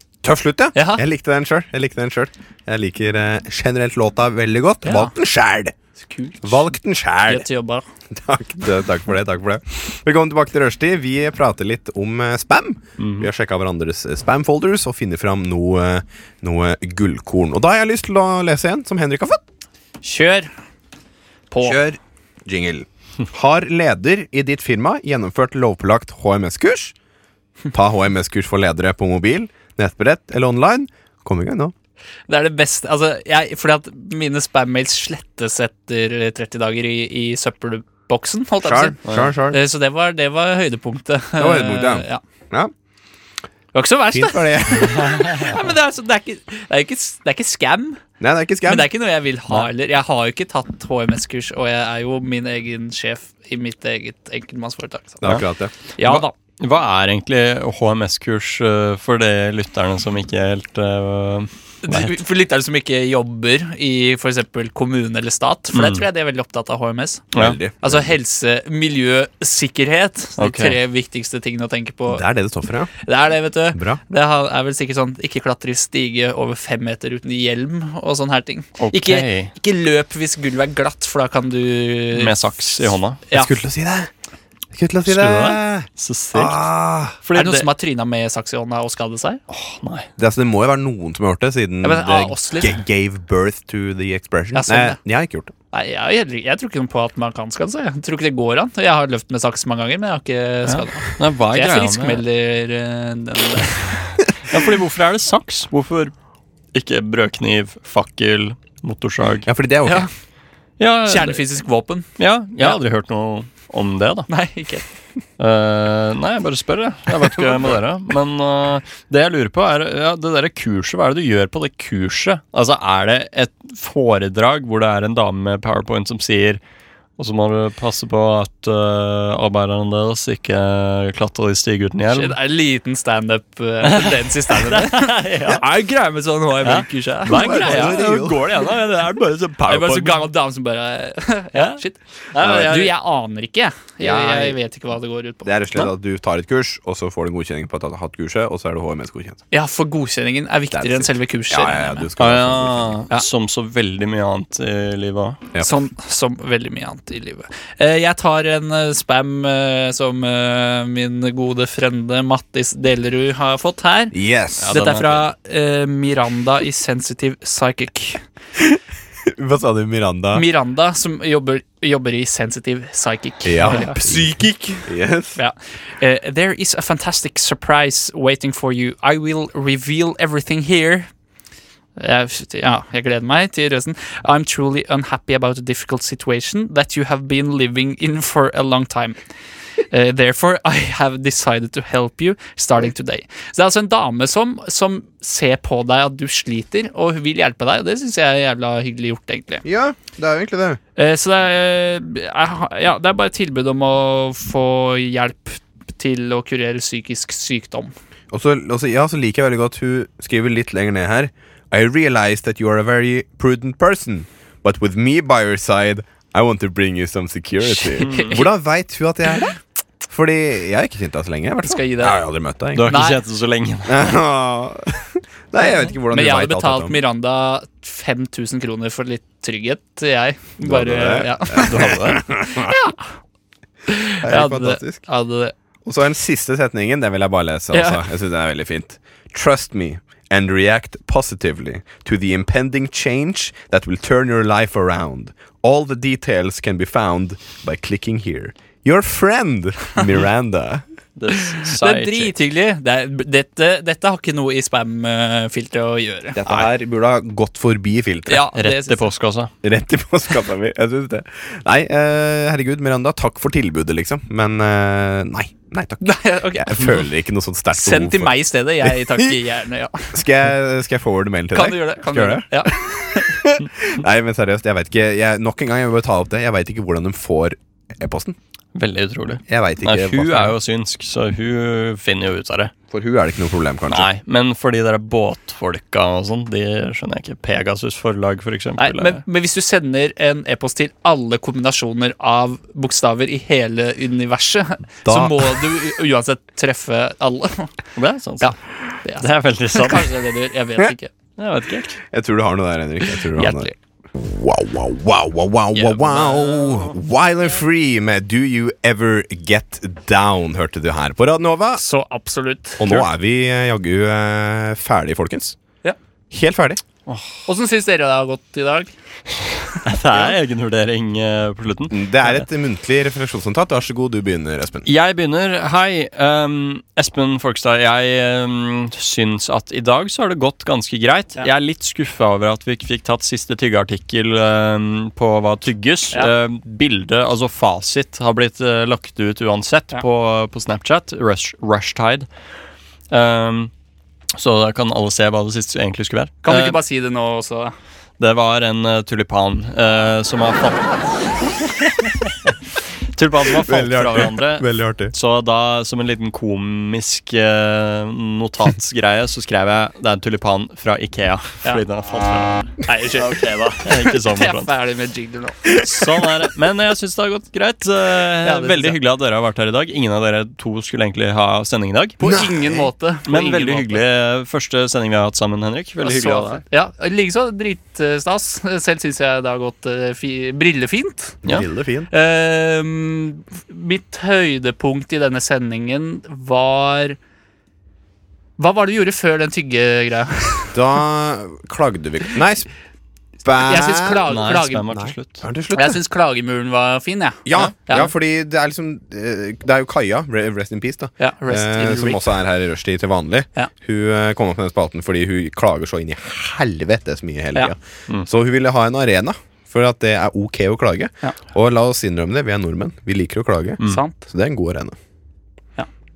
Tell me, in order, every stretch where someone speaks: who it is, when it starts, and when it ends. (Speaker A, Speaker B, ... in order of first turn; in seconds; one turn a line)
Speaker A: 0.2-5.8
Speaker B: 0.7-1.0
Speaker B: 4.8-5.1
Speaker B: 6.0-6.6
Speaker A: 6.4-7.5
Speaker B: 7.3-7.8
Speaker A: 8.1-19.4
Speaker C: 13.0-13.3
Speaker B: 20.0-20.5
Speaker B: 21.5-21.8
Speaker A: 21.6-26.9
Speaker A: 27.7-31.7
Speaker B: 32.3-39.0
Speaker A: 38.6-39.6
Speaker B: 39.5-42.2
Speaker A: 41.4-42.7
Speaker B: 43.7-48.0
Speaker A: 44.1-45.5
Speaker A: 48.2-48.9
Speaker B: 48.6-55.4
Speaker A: 55.2-55.7
Speaker B: 56.0-56.3
Speaker C: 56.0-62.2
Speaker B: 61.8-67.3
Speaker C: 65.7-66.0
Speaker A: 67.4-68.1
Speaker B: 67.8-72.2
Speaker C: 70.4-70.8
Speaker A: 72.1-72.9
Speaker B: 73.0-83.5
Speaker A: 73.7-74.0
Speaker C: 78.8-79.5
Speaker C: 82.1-83.2
Speaker A: 83.3-84.1
Speaker A: 84.7-87.2
Speaker C: 85.0-86.6
Speaker C: 87.2-87.7
Speaker B: 87.3-89.4
Speaker C: 89.5-90.1
Speaker A: 90.2-95.5
Speaker B: 91.8-92.8
Speaker B: 94.5-95.0
Speaker B: 95.7-104.0
Speaker C: 100.7-102.2
Speaker C: 104.5-106.1
Speaker C: 106.7-109.5
Speaker A: 109.5-110.1
Speaker C: 110.8-111.4
Speaker B: 111.0-112.1
Speaker C: 112.2-114.3
Speaker B: 114.3-114.8
Speaker C: 115.4-126.6
Speaker C: 127.2-132.4
Speaker B: 132.1-138.0
Speaker C: 133.8-135.7
Speaker C: 136.6-140.3
Speaker A: 137.3-138.4
Speaker B: 139.7-145.5
Speaker C: 141.5-141.8
Speaker C: 142.3-142.9
Speaker A: 144.0-144.6
Speaker A: 145.4-149.4
Speaker B: 149.5-152.1
Speaker A: 150.7-153.0
Speaker C: 152.2-155.4
Speaker B: 155.6-164.2
Speaker A: 164.1-164.7
Speaker C: 164.6-165.3
Speaker B: 164.7-168.2
Speaker A: 168.6-170.4
Speaker B: 170.3-181.1
Speaker A: 173.4-175.4
Speaker B: 182.0-189.2
Speaker B: 189.9-199.6
Speaker A: 199.6-200.8
Speaker B: 201.0-207.9
Speaker A: 208.3-219.6
Speaker B: 217.8-218.4
Speaker C: 218.1-218.5
Speaker A: 220.1-223.1
Speaker B: 221.6-222.2
Speaker C: 222.7-224.2
Speaker B: 222.9-223.2
Speaker A: 223.9-227.0
Speaker B: 226.1-232.0
Speaker A: 230.6-232.8
Speaker C: 231.7-232.2
Speaker B: 232.6-233.0
Speaker B: 233.9-235.5
Speaker A: 234.2-235.0
Speaker A: 235.8-250.8
Speaker B: 237.7-238.0
Speaker C: 251.2-252.3
Speaker B: 251.6-256.6
Speaker A: 256.4-258.4
Speaker B: 258.3-259.1
Speaker C: 258.6-259.5
Speaker A: 259.6-269.4
Speaker B: 266.0-267.0
Speaker B: 267.7-270.2
Speaker A: 270.1-278.4
Speaker B: 271.5-273.4
Speaker C: 278.7-282.7
Speaker A: 279.5-280.6
Speaker A: 282.9-284.1
Speaker C: 283.9-289.2
Speaker B: 288.8-297.7
Speaker A: 295.1-295.7
Speaker C: 297.9-298.6
Speaker B: 298.4-301.1
Speaker C: 299.2-300.1
Speaker C: 301.4-302.0
Speaker A: 302.1-311.8
Speaker B: 303.4-303.7
Speaker C: 305.8-306.9
Speaker B: 311.8-313.1
Speaker A: 312.8-315.6
Speaker A: 316.3-316.8
Speaker C: 317.1-317.4
Speaker B: 317.5-318.9
Speaker B: 319.7-320.3
Speaker C: 319.8-322.1
Speaker A: 321.9-324.9
Speaker C: 324.9-342.3
Speaker C: 343.1-343.7
Speaker C: 344.4-346.8
Speaker B: 346.4-347.7
Speaker C: 348.2-352.5
Speaker C: 353.1-364.7
Speaker A: 353.6-355.1
Speaker B: 362.8-365.7
Speaker C: 365.8-372.2
Speaker B: 368.4-369.0
Speaker B: 372.2-374.0
Speaker A: 372.2-372.9
Speaker C: 373.3-376.6
Speaker B: 376.1-381.4
Speaker A: 381.4-382.1
Speaker B: 382.1-387.2
Speaker B: 388.6-390.7
Speaker A: 390.7-392.7
Speaker A: 393.4-394.3
Speaker B: 393.6-395.1
Speaker C: 394.3-395.4
Speaker A: 395.4-396.0
Speaker B: 395.7-398.1
Speaker A: 397.4-414.9
Speaker B: 401.2-402.2
Speaker B: 413.8-414.2